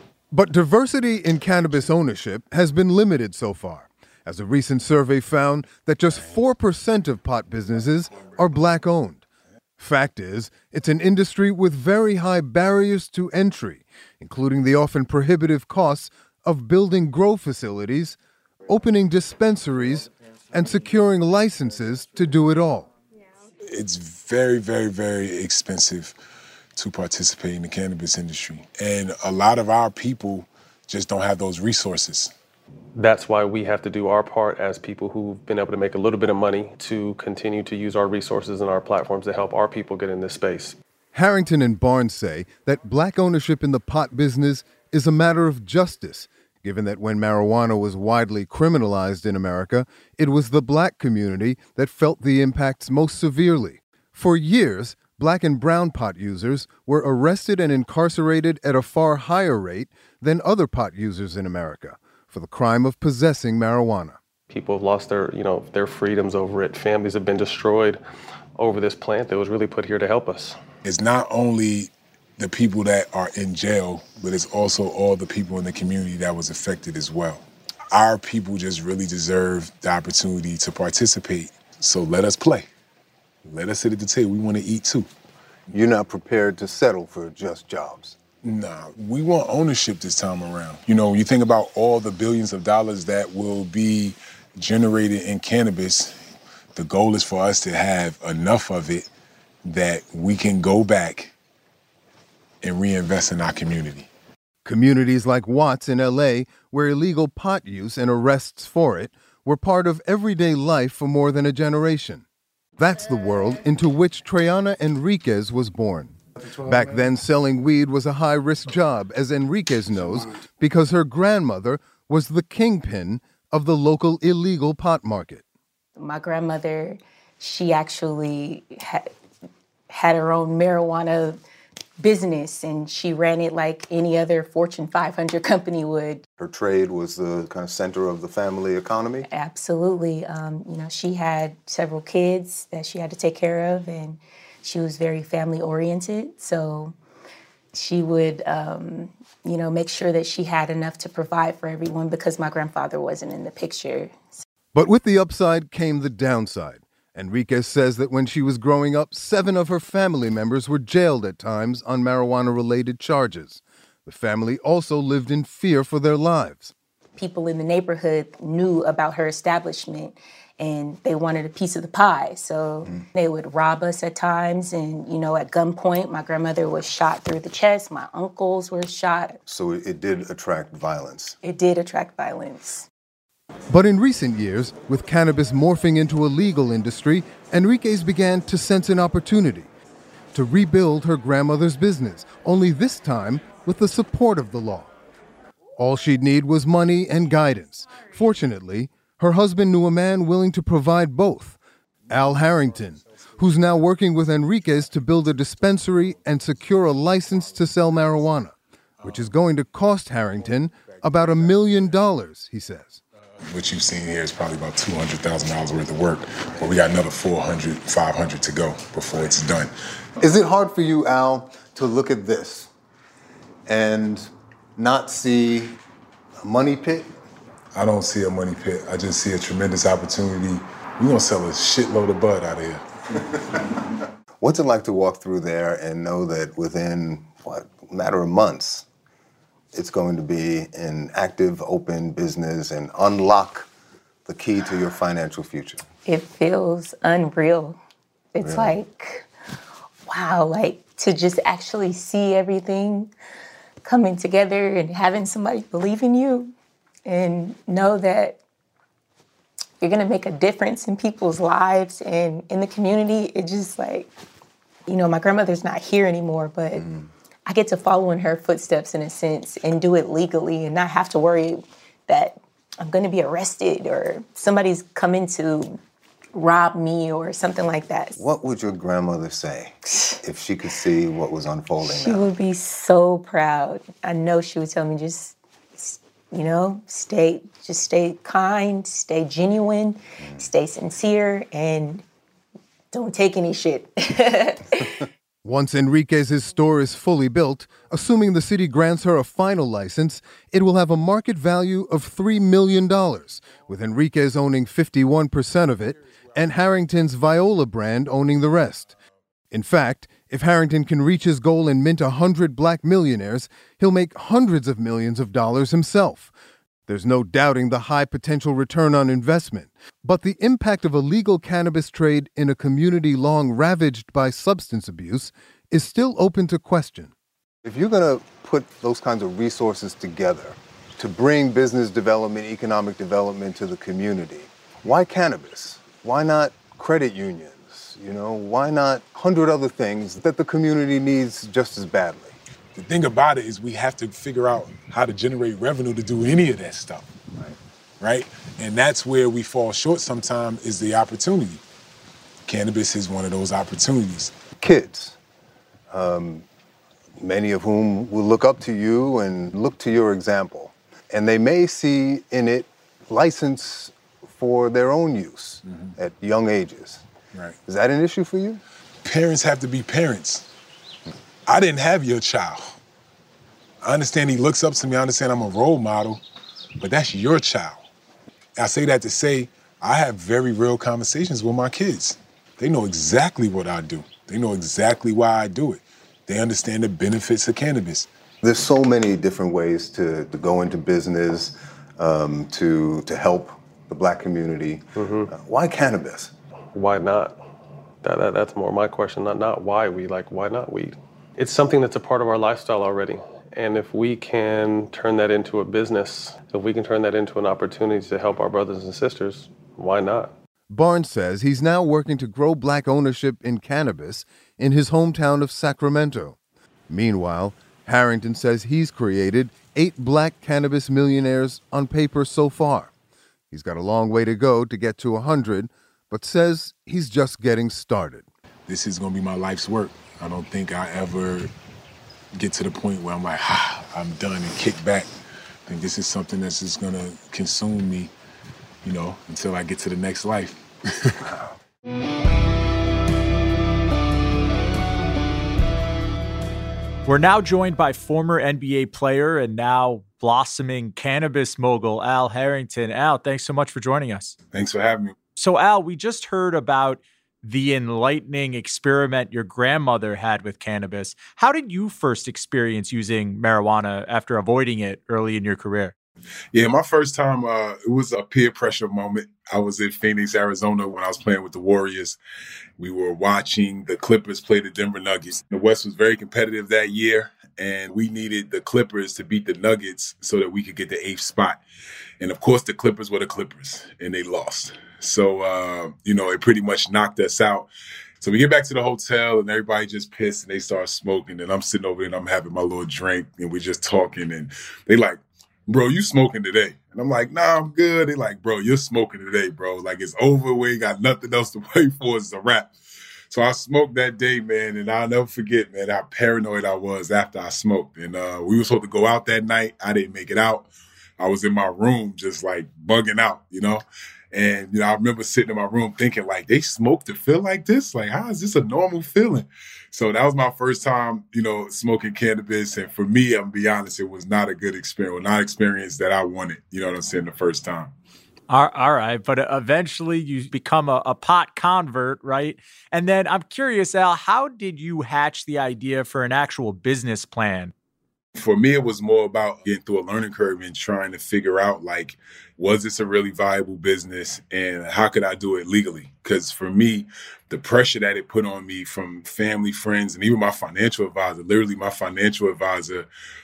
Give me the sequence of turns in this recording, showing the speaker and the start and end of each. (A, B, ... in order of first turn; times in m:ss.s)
0:00.3-0:09.2 A
0:09.8-0:22.9 A
0:23.6-0:26.2 B
0:26.8-0:32.3 B
0:32.9-0:40.8 C
0:41.1-1:04.2 A
1:04.5-1:08.0 C
1:08.6-1:10.6 C
1:10.8-1:22.7 B
1:23.4-1:25.1 B
1:25.7-1:28.2 D
1:28.4-1:36.2 B
1:36.7-1:39.1 B
1:39.6-1:41.3 B
1:42.6-1:44.1 B
1:44.6-1:52.2 A
1:52.8-2:05.4 A
2:06.0-2:09.1 E
2:09.9-2:11.4 E
2:12.0-2:16.2 E
2:16.4-2:19.2 D
2:19.3-2:26.9 E
2:27.7-2:34.4 E
2:34.7-2:46.7 A
2:47.2-2:59.4 E
2:59.5-3:01.4 D
3:01.4-3:02.9 E
3:03.7-3:09.7 A
3:10.3-3:14.9 A
3:15.8-3:21.6 A
3:22.1-3:33.0 A
3:33.4-3:39.7 B
3:40.2-3:42.7 D
3:43.7-3:45.8 D
3:46.4-3:47.1 D
3:47.7-3:52.8 B
3:54.4-3:58.8 D
3:59.7-4:03.7 D
4:04.2-4:05.8 D
4:06.0-4:07.8 E
4:08.3-4:09.3 E
4:08.4-4:08.7 D
4:10.1-4:13.1 E
4:13.8-4:16.5 E
4:17.0-4:18.4 E
4:19.8-4:24.1 E
4:24.9-4:26.9 E
4:27.4-4:35.8 E
4:36.3-4:38.2 E
4:38.2-4:42.2 D
4:41.8-4:52.0 E
4:52.9-4:55.0 E
4:55.4-5:08.9 A
5:09.5-5:16.3 A
5:16.9-5:27.1 A
5:27.6-5:42.4 D
5:42.7-5:47.1 B
5:48.0-5:51.6 B
5:52.4-5:54.3 B
5:54.6-5:55.2 D
5:55.9-5:56.4 D
5:57.2-6:07.0 D
6:07.6-6:08.6 D
6:09.0-6:10.5 B
6:11.5-6:12.8 B
6:13.8-6:16.2 B
6:16.8-6:17.8 B
6:18.6-6:28.1 B
6:28.4-6:36.3 D
6:35.0-6:35.3 C
6:36.7-6:37.5 C
6:38.0-6:50.3 C
6:50.7-6:56.4 A
6:56.9-7:02.9 A
7:03.5-7:08.2 A
7:08.7-7:11.5 B
7:12.3-7:15.1 B
7:15.7-7:18.1 B
7:18.8-7:21.3 B
7:27.0-7:34.4 F
7:34.5-7:35.1 B
7:35.4-7:45.9 F
7:46.5-7:52.2 B
7:52.8-8:01.6 B
8:02.2-8:07.7 B
8:08.2-8:22.7 B
8:23.3-8:47.9 B
8:48.5-8:57.7 F
8:58.4-9:13.1 B